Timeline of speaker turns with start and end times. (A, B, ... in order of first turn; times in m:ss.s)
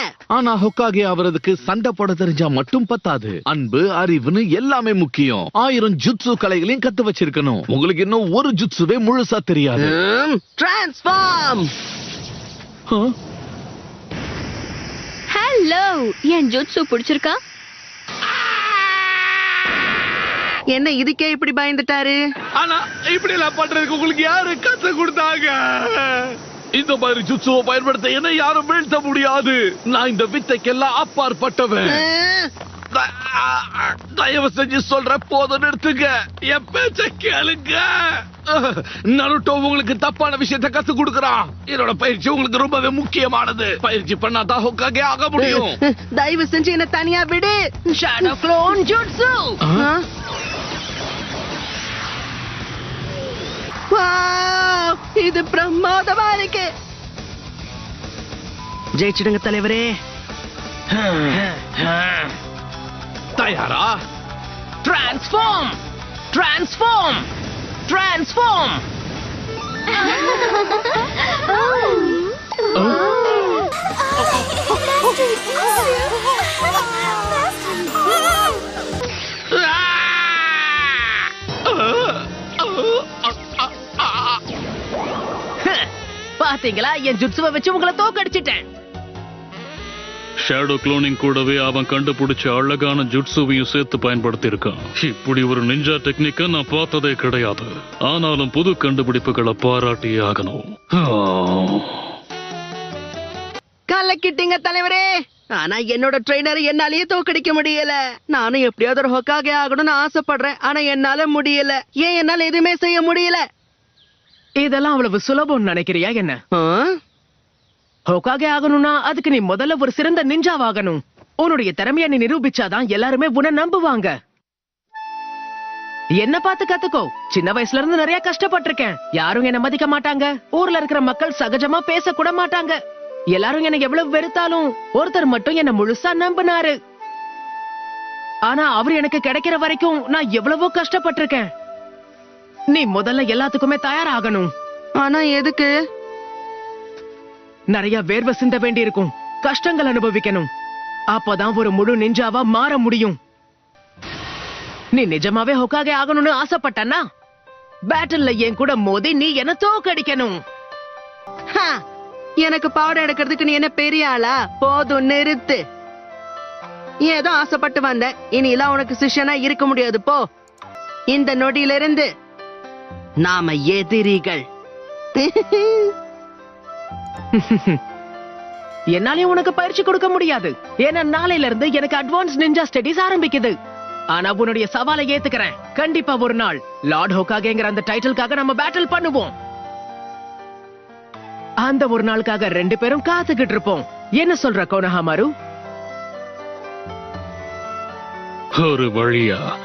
0:00.3-0:10.0 A
0:09.8-0:11.7 B
0:15.3-0:17.4 C
0:20.7-0:22.2 B
0:22.6-0:32.0 A
0:31.8-0:32.5 B
0:32.9-0:45.8 A
0:45.4-0:47.6 B
0:47.9-0:49.6 D
0:49.7-0:50.0 B
0:53.9-0:56.7 B
0:59.0-1:00.0 B
1:00.9-1:02.3 D
1:03.4-1:04.0 A
1:04.8-1:05.8 D
1:06.3-1:07.2 D
1:07.9-1:08.8 D
1:10.4-1:10.9 C
1:11.5-1:13.7 C
1:14.8-1:15.6 C
1:19.6-1:20.4 A
1:25.6-1:25.9 D
1:26.4-1:28.7 D
1:30.4-1:42.0 E
1:43.9-1:53.4 B
1:54.6-1:56.4 D
1:56.5-1:57.0 B
1:58.1-2:04.1 D
2:06.2-2:12.8 D
2:13.3-2:16.8 D
2:18.5-2:21.5 D
2:22.7-2:24.5 D
2:25.0-2:25.7 B
2:27.7-2:30.5 D
2:31.1-2:33.2 D
2:34.9-2:37.0 D
2:37.9-2:40.4 D
2:42.4-2:45.6 B
2:47.0-2:50.2 B
2:51.1-2:52.1 B
2:53.2-2:54.4 B
2:55.2-2:55.9 B
2:57.4-2:57.8 D
2:58.9-3:03.6 D
3:04.1-3:09.3 D
3:11.6-3:15.3 D
3:18.6-3:19.4 E